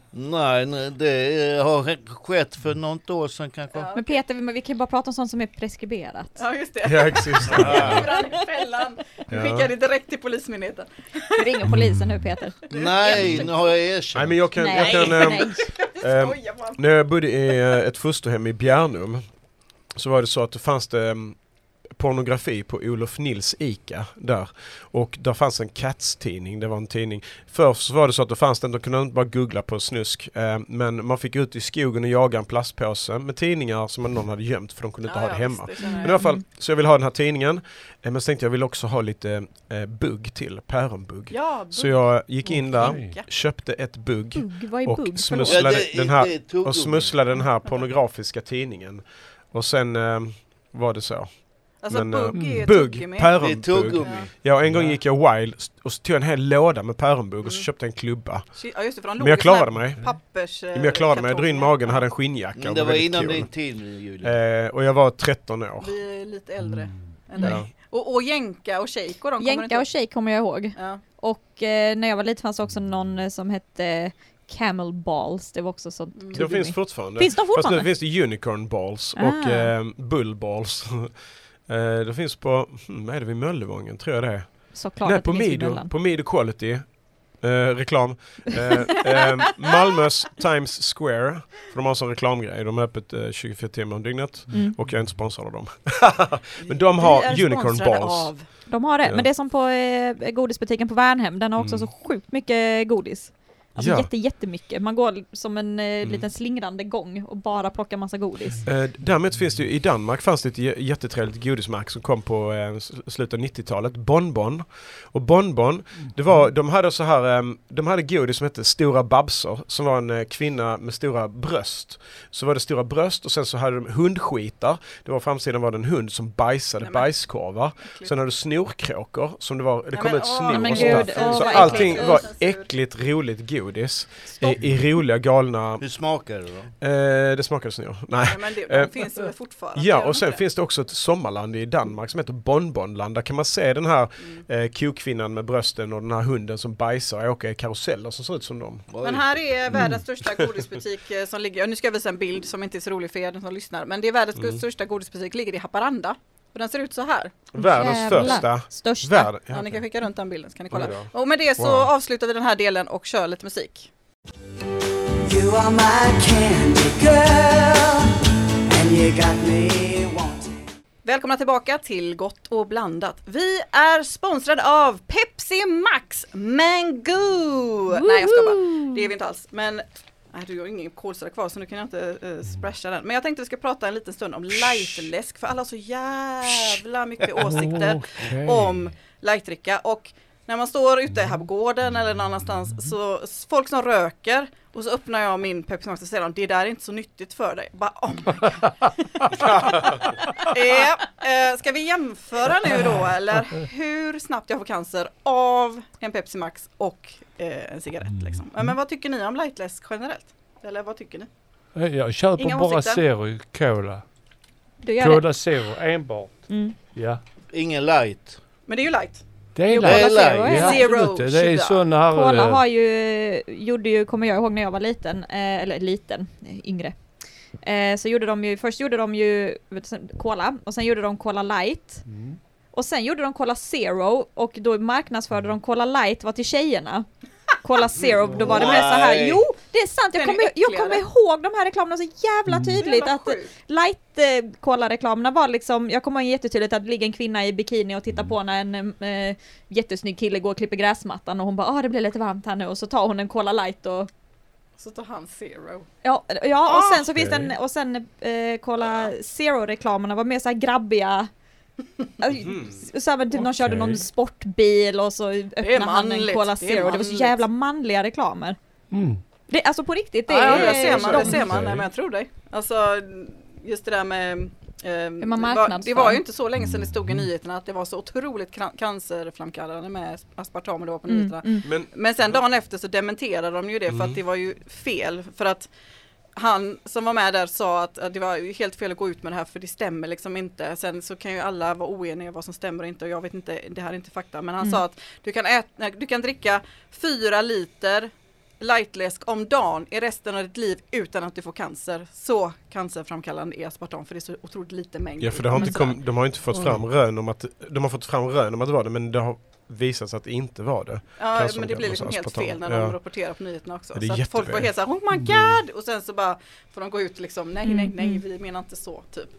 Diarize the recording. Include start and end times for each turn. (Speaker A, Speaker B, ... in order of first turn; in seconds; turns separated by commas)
Speaker A: 0.1-3.9, Speaker B: 3.7-4.2, Speaker C: 3.9-6.4, Speaker B: 6.4-11.6, Speaker D: 6.8-8.1, Speaker A: 7.5-8.1, Speaker D: 9.3-9.7, Speaker C: 11.4-12.5, Speaker E: 11.7-12.2, Speaker B: 12.6-13.6, Speaker A: 12.7-14.5, Speaker D: 14.1-19.2, Speaker C: 14.6-15.7, Speaker B: 14.7-16.8, Speaker D: 19.9-21.4, Speaker D: 21.9-58.5, Speaker B: 35.0-36.2, Speaker C: 35.8-36.4, Speaker B: 41.3-43.3, Speaker E: 42.7-43.2, Speaker C: 44.3-45.8, Speaker A: 45.4-47.1, Speaker B: 51.8-54.3, Speaker E: 52.3-52.7, Speaker A: 53.4-54.3, Speaker E: 54.6-55.0, Speaker B: 57.4-57.7, Speaker B: 58.5-62.1, Speaker D: 59.2-60.0, Speaker D: 60.7-63.5, Speaker A: 62.6-64.4, Speaker D: 64.2-65.9, Speaker B: 65.8-69.9, Speaker C: 67.3-67.6, Speaker D: 67.4-67.7, Speaker C: 69.4-77.9, Speaker B: 70.7-71.0, Speaker B: 76.2-76.4, Speaker D: 76.3-81.1, Speaker C: 79.2-79.7, Speaker D: 81.7-99.2, Speaker C: 84.7-85.9, Speaker C: 94.5-94.8, Speaker B: 96.6-98.5, Speaker C: 98.7-108.6, Speaker D: 101.6-101.9, Speaker D: 103.8-104.1, Speaker D: 108.6-135.9, Speaker B: 126.8-127.1, Speaker B: 127.8-128.1, Speaker B: 129.9-132.7, Speaker C: 130.5-132.3, Speaker A: 135.8-136.7, Speaker D: 136.8-139.1, Speaker B: 138.2-140.4, Speaker D: 139.7-148.8, Speaker A: 148.9-149.5, Speaker B: 149.0-158.4, Speaker E: 149.7-150.0, Speaker D: 157.5-159.8, Speaker C: 157.6-159.3, Speaker B: 159.5-163.9, Speaker D: 160.7-161.9, Speaker F: 165.2-170.5, Speaker B: 171.0-211.3, Speaker C: 177.9-179.1, Speaker E: 187.4-188.9, Speaker D: 199.3-200.2, Speaker E: 208.2-208.7, Speaker E: 211.7-214.0, Speaker B: 212.4-213.0, Speaker C: 214.8-215.3, Speaker E: 215.0-217.2, Speaker C: 216.5-216.8, Speaker A: 217.5-218.4, Speaker B: 218.7-221.8, Speaker E: 219.5-222.6, Speaker C: 219.7-220.9, Speaker A: 219.8-220.7, Speaker C: 222.1-226.9, Speaker C: 227.6-232.1, Speaker E: 232.1-232.4, Speaker C: 232.7-237.1, Speaker C: 237.6-254.1, Speaker A: 238.3-239.4, Speaker B: 240.2-241.0, Speaker E: 242.5-242.8, Speaker B: 242.8-243.5, Speaker B: 254.8-255.9, Speaker C: 256.0-261.3, Speaker B: 256.7-257.0, Speaker E: 257.1-257.5, Speaker C: 262.2-268.6, Speaker D: 262.3-262.8, Speaker E: 263.4-264.0, Speaker B: 265.6-267.4, Speaker E: 268.9-269.2, Speaker C: 269.5-271.5, Speaker B: 270.3-285.7, Speaker D: 270.4-271.7, Speaker E: 271.4-271.9, Speaker C: 275.2-276.2, Speaker C: 281.1-281.7, Speaker D: 281.6-282.4, Speaker D: 283.9-284.2, Speaker B: 286.3-306.0, Speaker D: 305.2-312.9, Speaker C: 305.5-305.9, Speaker E: 306.5-306.8, Speaker B: 311.2-319.3, Speaker D: 313.9-314.7, Speaker E: 315.1-315.6, Speaker C: 317.6-318.2